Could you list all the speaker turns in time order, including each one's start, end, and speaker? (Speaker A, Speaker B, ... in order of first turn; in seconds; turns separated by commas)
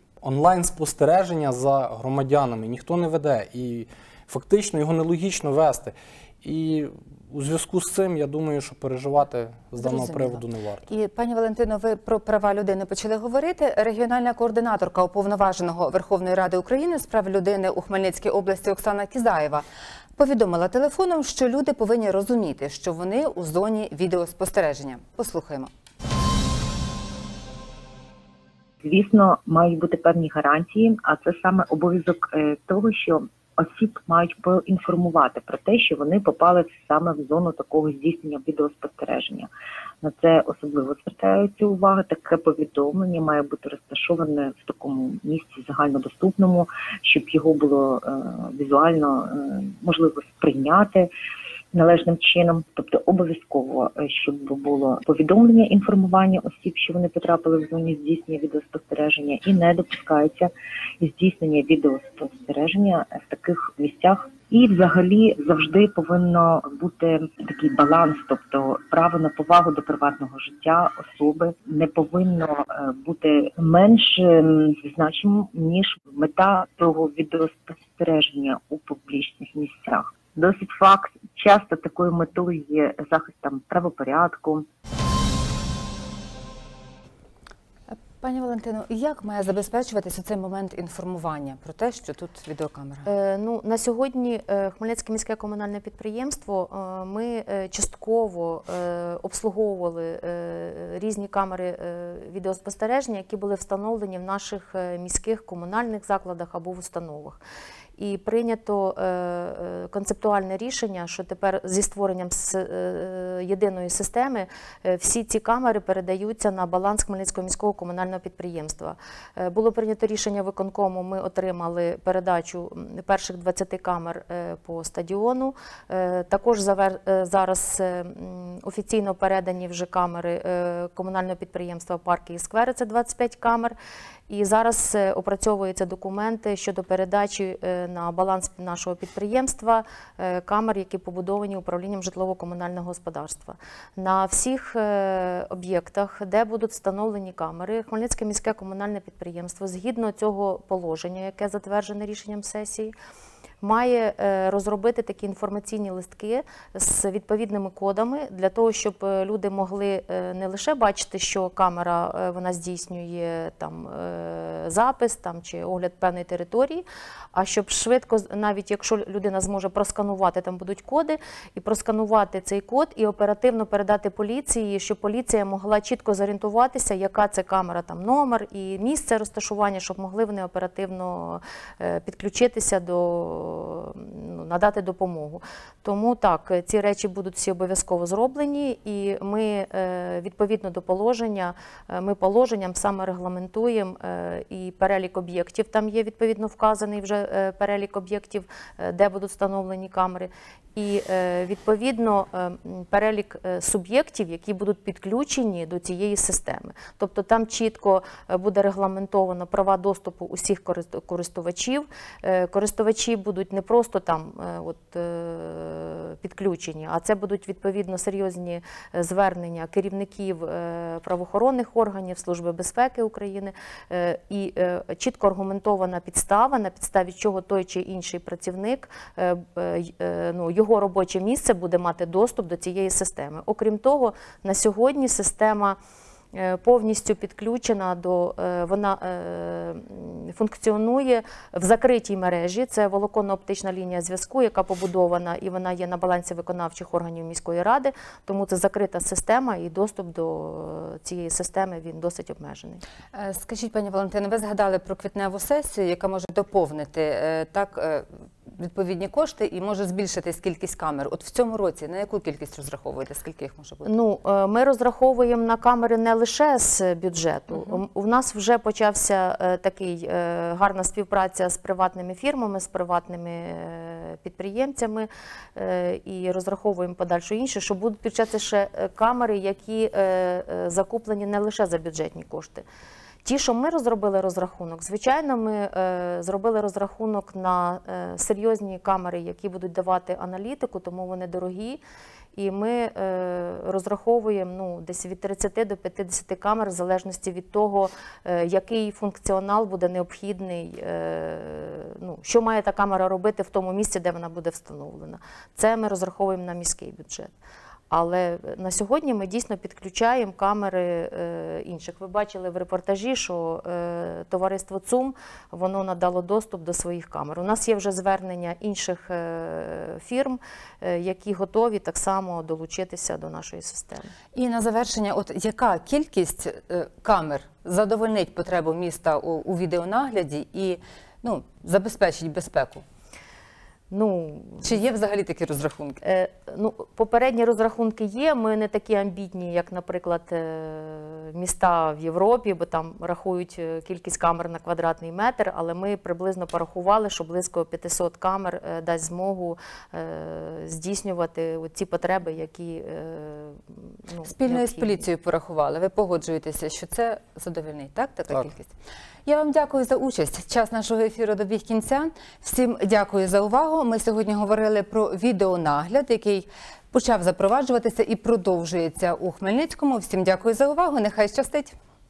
Speaker A: 0.2-10.9, Speaker B: 9.8-19.6, Speaker B: 20.2-25.7, Speaker C: 28.8-39.5, Speaker C: 40.0-51.1, Speaker C: 51.7-84.7, Speaker B: 87.9-93.1, Speaker D: 93.1-107.4, Speaker D: 108.0-133.8, Speaker D: 134.3-152.9, Speaker D: 153.6-235.8, Speaker D: 236.3-252.8, Speaker B: 253.1-263.9, Speaker D: 263.8-282.6, Speaker B: 267.5-267.8, Speaker D: 283.2-291.8, Speaker D: 292.4-307.3, Speaker D: 307.9-324.1, Speaker B: 324.4-332.8, Speaker D: 333.9-334.8, Speaker B: 334.6-336.0, Speaker D: 336.0-355.0, Speaker B: 354.2-358.7, Speaker B: 359.3-371.8